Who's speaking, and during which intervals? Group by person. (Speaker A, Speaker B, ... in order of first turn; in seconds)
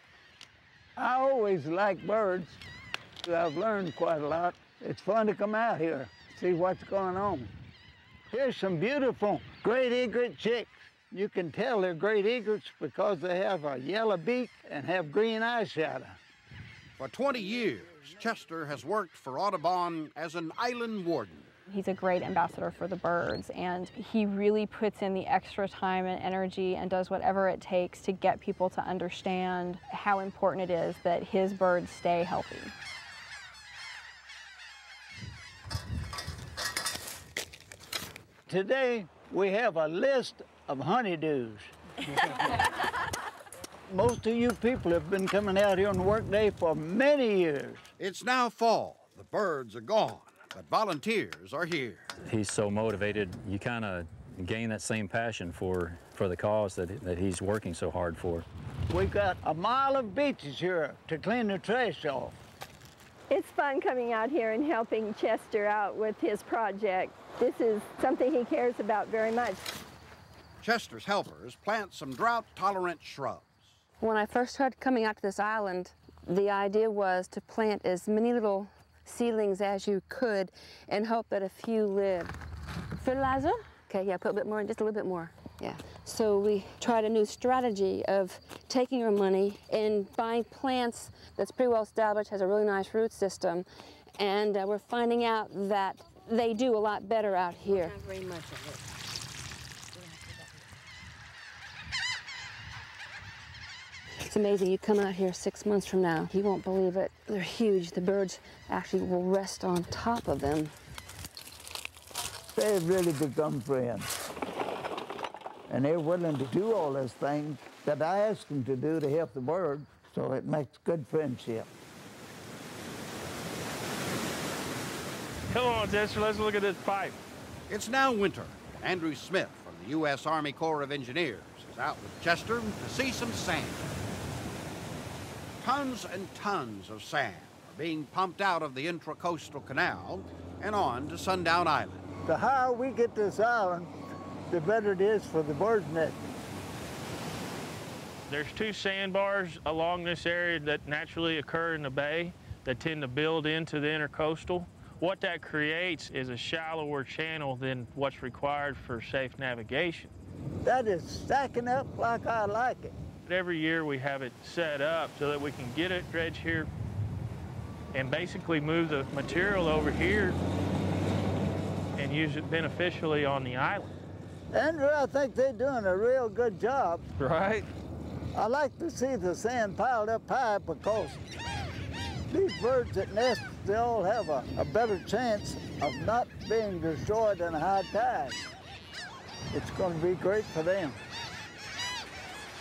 Speaker A: 1.0-2.6, 3.2-7.5, 8.3-16.2, 38.5-41.7, 43.9-47.9, 58.9-62.4, 112.5-114.2, 115.7-121.7, 142.2-143.9, 144.5-146.2, 160.6-162.9, 174.5-177.1, 178.3-181.2, 182.3-188.4, 189.5-191.0
Speaker B: 17.0-21.5, 48.0-52.1, 70.6-73.8, 127.7-133.9, 135.6-142.1
Speaker C: 21.7-32.8
Speaker D: 52.3-58.4
Speaker E: 63.3-69.7
Speaker F: 74.0-82.3, 83.0-98.0, 104.2-110.7
Speaker G: 125.5-127.2, 148.3-160.1, 163.3-166.7, 167.9-170.4, 172.0-173.9, 177.2-177.7